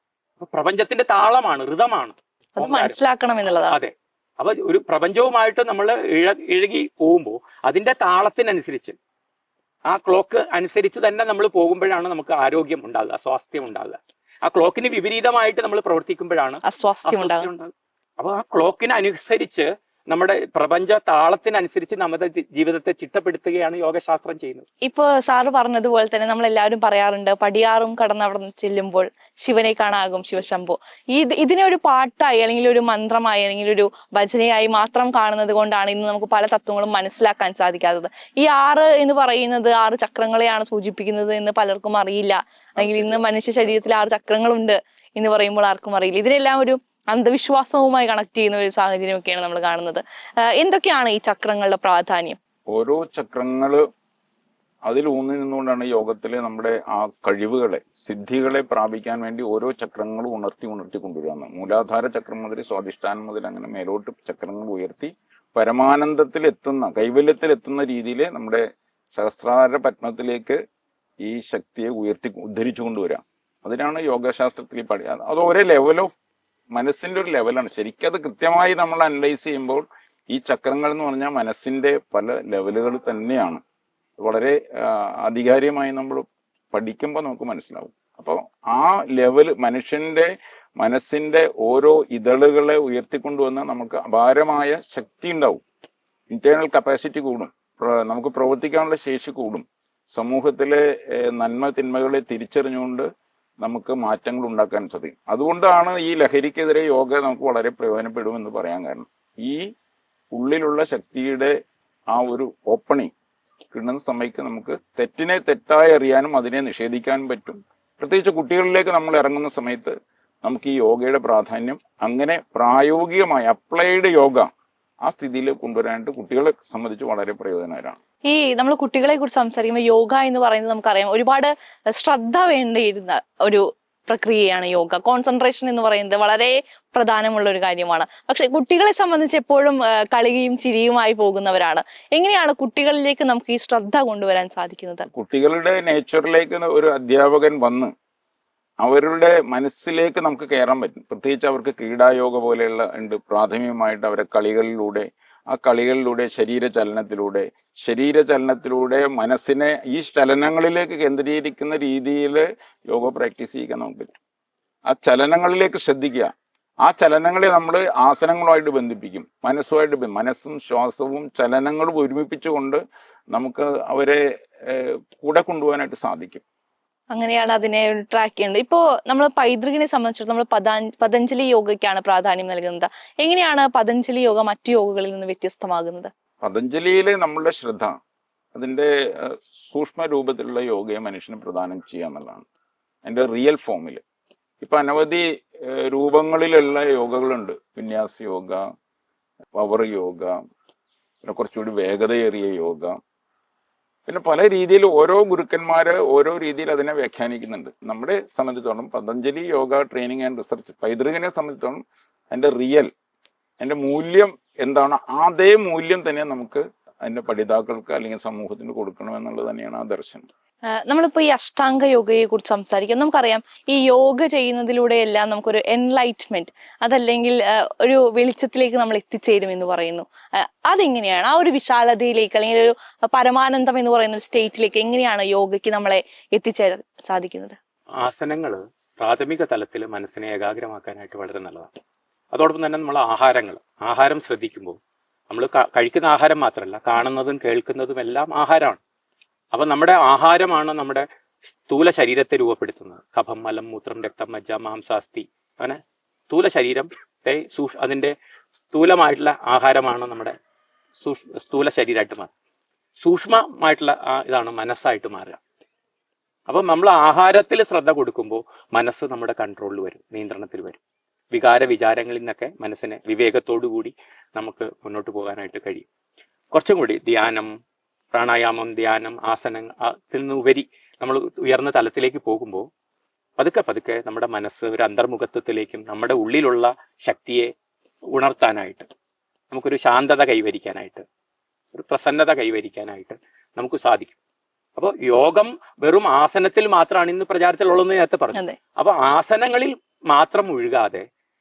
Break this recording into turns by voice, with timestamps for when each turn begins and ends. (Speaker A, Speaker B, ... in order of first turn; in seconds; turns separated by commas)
Speaker A: 0.4-3.0, Speaker B: 2.6-3.8, Speaker A: 3.7-9.0, Speaker A: 9.9-24.6, Speaker B: 16.6-17.5, Speaker B: 24.8-50.0, Speaker C: 42.8-43.2, Speaker B: 50.6-52.4, Speaker C: 52.7-53.8, Speaker C: 54.9-70.6, Speaker C: 71.2-76.1, Speaker C: 76.7-83.6, Speaker C: 84.2-95.6, Speaker C: 96.3-103.1, Speaker C: 103.6-109.7, Speaker C: 110.3-111.5, Speaker C: 112.1-113.1, Speaker C: 113.7-124.5, Speaker C: 125.0-128.0, Speaker B: 128.3-145.1, Speaker C: 145.1-147.9, Speaker C: 148.8-164.2, Speaker C: 164.9-166.3, Speaker C: 166.8-172.8, Speaker C: 173.3-176.4, Speaker B: 177.1-186.1, Speaker C: 186.4-187.9, Speaker C: 188.5-192.5, Speaker C: 193.0-194.0, Speaker C: 194.6-198.6, Speaker C: 199.6-200.4, Speaker C: 201.2-203.0, Speaker C: 204.1-211.8, Speaker C: 212.3-212.9, Speaker C: 213.6-220.3, Speaker B: 220.9-237.6, Speaker A: 238.0-241.7, Speaker A: 242.3-244.8, Speaker A: 245.3-248.8, Speaker A: 249.5-258.1, Speaker A: 258.7-260.4, Speaker A: 261.0-262.3, Speaker A: 263.0-265.4, Speaker A: 266.5-270.8, Speaker A: 271.3-275.9, Speaker A: 276.5-277.5, Speaker A: 278.1-282.7, Speaker A: 283.4-287.5, Speaker A: 288.1-288.9, Speaker A: 289.5-291.0, Speaker A: 291.7-294.2, Speaker A: 294.8-301.1